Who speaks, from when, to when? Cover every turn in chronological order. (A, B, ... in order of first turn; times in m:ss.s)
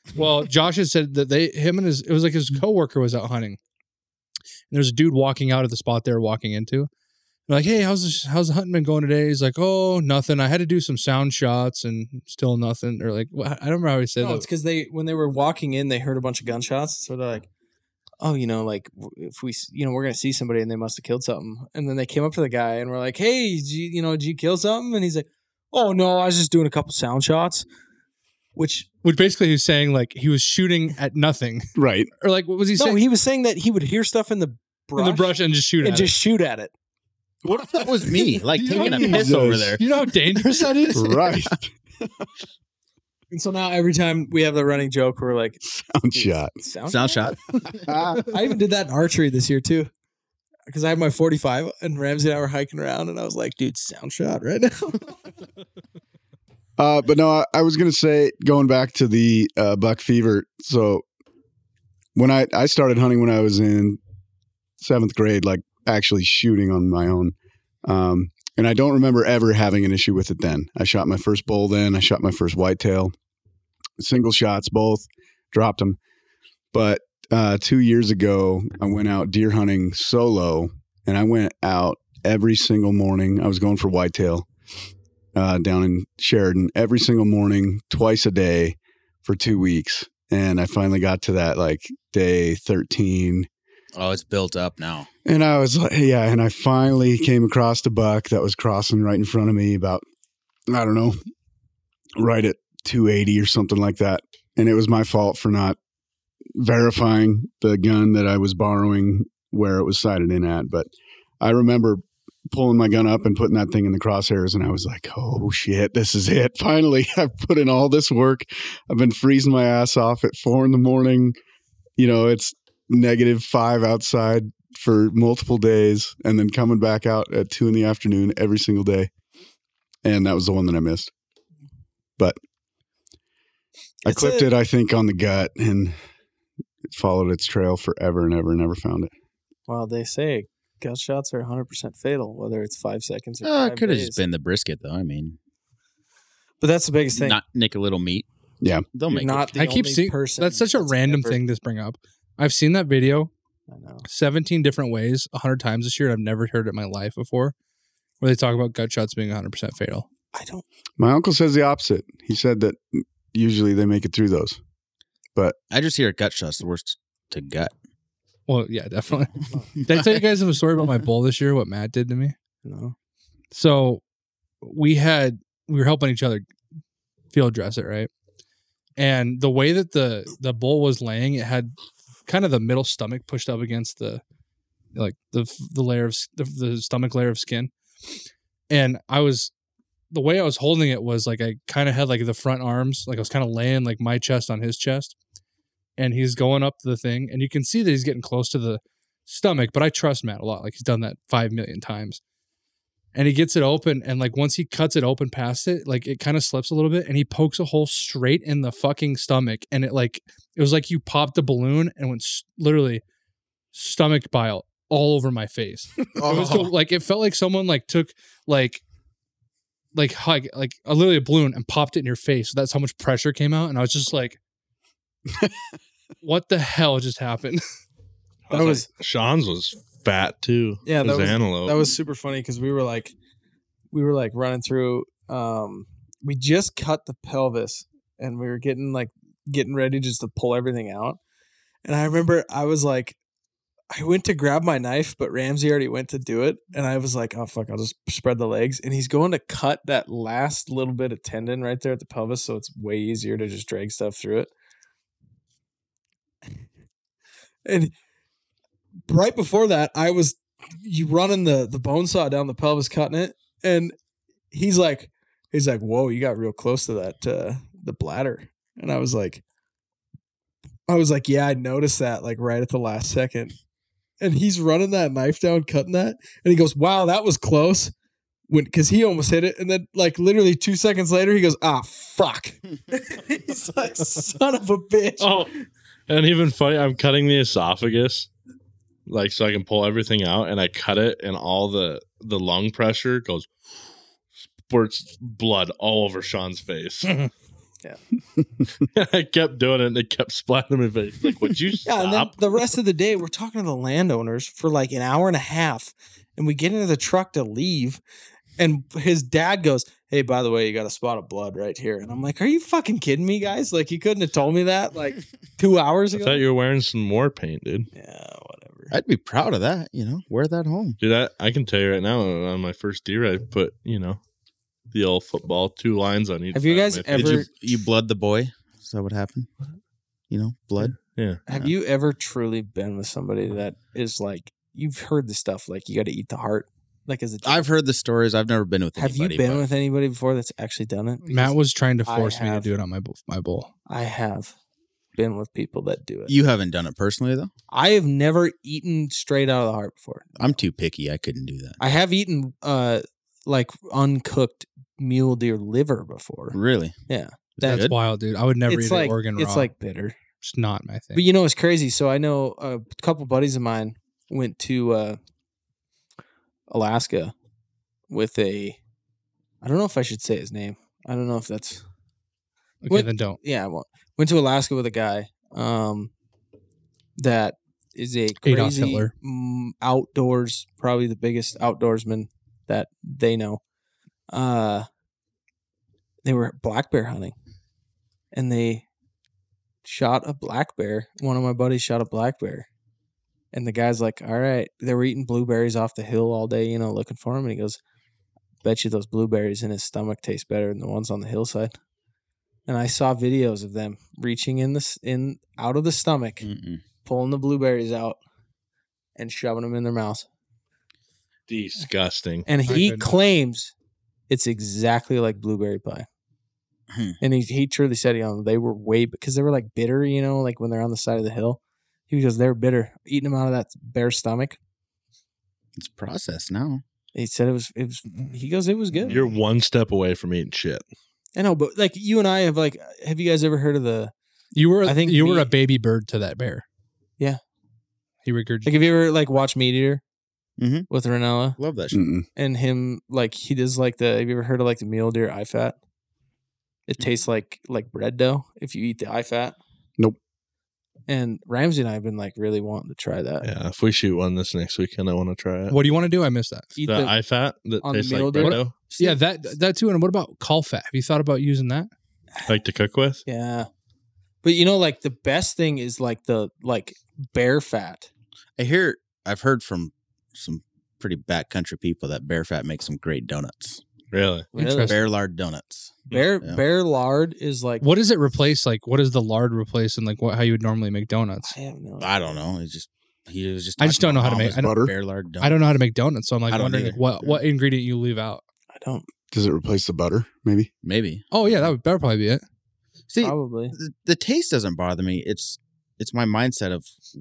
0:00.2-0:03.6 A
0:04.7-0:06.9 A
0:07.5-0:14.5 A
0:14.2-0:17.5 B
0:18.2-0:27.7 B
0:28.6-0:28.9 B
0:29.0-0:31.7 A
0:31.8-0:32.1 C
0:32.2-0:33.0 A
0:32.8-0:36.7 B
0:35.0-0:36.1 A
0:37.5-0:39.8 D
0:38.6-0:41.3 A
0:38.7-0:39.8 C
0:40.9-0:42.1 C
0:43.3-0:45.6 B
0:45.6-0:46.6 C
0:46.1-0:47.3 B
0:46.9-0:47.9 D
0:47.9-0:48.2 C
0:48.2-0:49.9 B
0:50.7-0:55.2 B
0:56.8-1:01.0 C
1:02.2-1:04.0 C
1:04.8-1:13.1 C
1:14.0-1:16.0 C
1:16.7-1:24.5 C
1:25.4-1:33.5 C
1:34.0-1:35.1 D
1:35.2-1:40.0 C
1:40.7-1:41.2 C
1:42.2-1:45.8 C
1:46.6-1:50.9 C
1:51.4-2:01.4 C
2:02.0-2:09.1 C
2:10.0-2:11.1 C
2:14.0-2:16.0 C
2:14.0-2:14.5 B
2:16.9-2:19.1 C
2:19.7-2:24.2 B
2:23.4-2:25.4 D
2:26.6-2:27.4 B
2:27.1-2:28.3 D
2:28.6-2:28.9 C
2:28.9-2:29.5 D
2:29.1-2:31.4 B
2:29.6-2:33.3 A
2:33.7-2:34.1 B
2:34.1-2:37.6 A
2:38.2-2:40.1 A
2:40.3-2:40.6 B
2:41.0-2:44.6 C
2:45.7-2:47.7 D
2:48.5-2:49.3 A
2:49.8-2:52.4 A
2:52.6-2:53.0 B
2:53.5-2:54.0 A
2:54.6-2:56.5 A
2:57.3-2:58.1 A
2:59.0-3:01.7 A
3:02.3-3:04.2 A
3:05.0-3:07.7 A
3:08.7-3:09.5 A
3:10.1-3:15.2 A
3:16.0-3:22.2 A
3:23.2-3:33.0 A
3:33.7-3:38.8 A
3:36.2-3:36.7 D
3:39.9-3:44.4 A
3:46.2-3:47.6 A
3:48.5-3:51.9 E
3:48.5-3:48.9 B
3:50.8-3:53.2 B
3:53.9-4:01.2 B
4:01.8-4:03.2 B
4:03.9-4:14.5 B
4:17.6-4:17.9 B
4:19.1-4:24.0 B
4:24.5-4:29.4 B
4:30.9-4:33.6 B
4:34.2-4:37.9 B
4:38.5-4:45.5 B
4:45.2-4:45.5 E
4:46.1-4:48.3 E
4:49.1-4:53.5 E
4:54.6-4:57.3 E
4:58.8-5:02.4 E
5:01.8-5:08.0 B
5:08.6-5:16.4 B
5:16.1-5:17.9 E
5:17.9-5:18.9 B
5:18.9-5:21.0 D
5:21.0-5:24.2 E
5:24.9-5:27.4 E
5:26.5-5:27.5 B
5:27.1-5:29.5 D
5:30.3-5:31.0 D
5:31.1-5:31.4 E
5:31.5-5:37.7 B
5:37.4-5:39.7 D
5:39.0-5:41.6 B
5:41.3-5:43.7 A
5:42.1-5:42.7 B
5:43.9-5:44.5 B
5:45.2-5:46.3 B
5:46.3-5:47.5 D
5:47.7-5:50.6 B
5:50.4-5:51.8 D
5:51.8-5:57.9 B
5:56.5-5:57.0 D
5:57.6-5:57.9 D
5:57.6-5:59.7 A
5:58.7-6:00.2 B
6:00.4-6:01.2 A
6:01.1-6:05.2 B
6:06.7-6:07.3 B
6:08.1-6:08.8 B
6:09.6-6:11.8 B
6:12.8-6:13.4 A
6:12.9-6:16.1 B
6:17.2-6:23.6 B
6:18.4-6:19.1 A
6:24.3-6:24.9 B
6:26.2-6:27.4 B
6:28.3-6:28.8 B
6:29.8-6:32.7 B
6:33.5-6:37.8 B
6:38.6-6:41.7 B
6:42.7-6:46.5 B
6:46.4-6:46.8 D
6:47.0-6:48.2 B
6:49.2-6:50.3 B
6:51.5-6:52.5 E
6:52.5-6:53.7 B
6:52.7-6:53.1 A
6:54.3-6:56.1 B
6:56.9-6:57.2 D
6:57.2-7:04.6 B
7:05.8-7:06.8 D
7:07.2-7:09.2 B
7:09.1-7:10.8 E
7:11.4-7:14.1 B
7:14.6-7:16.6 A
7:14.8-7:15.5 B
7:18.2-7:18.8 A
7:18.6-7:20.0 B
7:20.6-7:20.9 D
7:20.9-7:21.6 B
7:21.6-7:22.0 D
7:21.9-7:22.3 C
7:22.4-7:25.8 B
7:26.9-7:29.6 B
7:31.1-7:33.5 B
7:33.4-7:35.8 E
7:35.7-7:36.7 A
7:36.8-7:37.1 B
7:36.8-7:38.8 E
7:37.8-7:39.2 B
7:38.4-7:41.9 A
7:42.5-7:43.2 E
7:43.3-7:43.7 B
7:44.4-7:48.1 B
7:48.6-7:53.8 D
7:54.1-7:54.5 E
7:54.5-7:55.0 B
7:54.6-7:55.0 A
7:54.9-7:56.6 D
7:56.1-7:57.9 B
7:57.8-8:01.6 A
8:01.5-8:02.4 B
8:02.0-8:05.6 D
8:03.8-8:04.8 A
8:04.6-8:04.9 C
8:05.4-8:08.4 A
8:06.5-8:07.4 D
8:08.7-8:09.1 B
8:09.3-8:10.7 C
8:10.8-8:11.7 D
8:11.3-8:12.4 A
8:13.1-8:17.0 D
8:13.2-8:13.8 B